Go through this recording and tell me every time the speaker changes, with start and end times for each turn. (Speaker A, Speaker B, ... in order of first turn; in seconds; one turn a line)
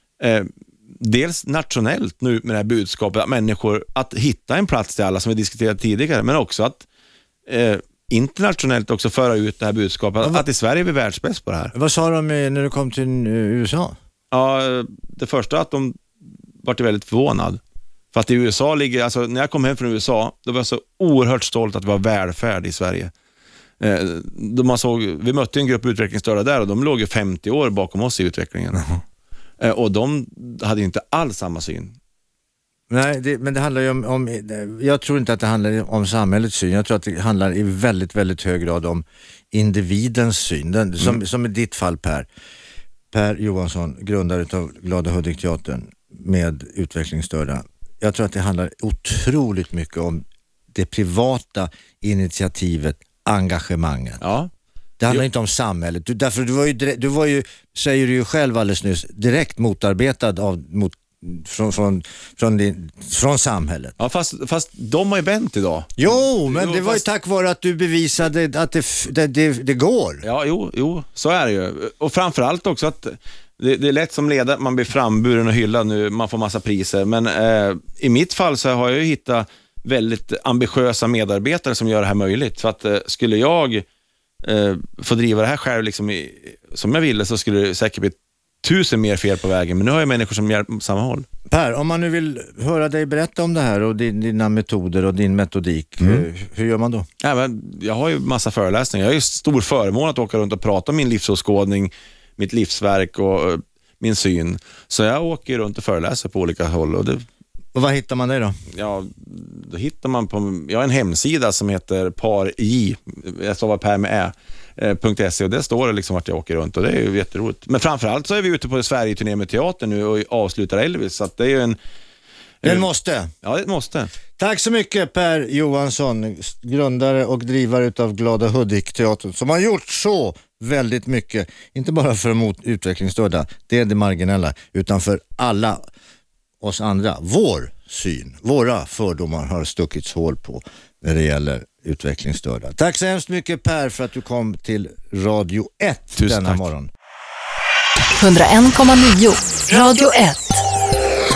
Speaker A: 0.2-6.8
Speaker A: 7.5-11.7
Speaker B: 11.7-13.9
Speaker A: 14.3-16.0
Speaker A: 16.6-17.6
Speaker A: 18.1-23.1
Speaker A: 23.8-28.9
Speaker A: 29.6-31.9
Speaker B: 32.9-42.3
Speaker B: 43.1-54.2
Speaker A: 54.2-54.5
Speaker B: 55.0-63.9
Speaker A: 64.0-67.0
Speaker B: 66.0-70.2
Speaker A: 70.2-83.8
Speaker A: 84.4-91.2
Speaker B: 91.5-97.0
Speaker A: 97.2-107.2
Speaker B: 107.7-108.6
Speaker A: 108.7-121.8
Speaker A: 122.6-122.9
Speaker B: 122.6-123.3
Speaker A: 123.4-124.1
Speaker B: 124.4-135.8
Speaker B: 136.6-146.9
Speaker A: 146.2-146.7
Speaker C: 148.2-150.6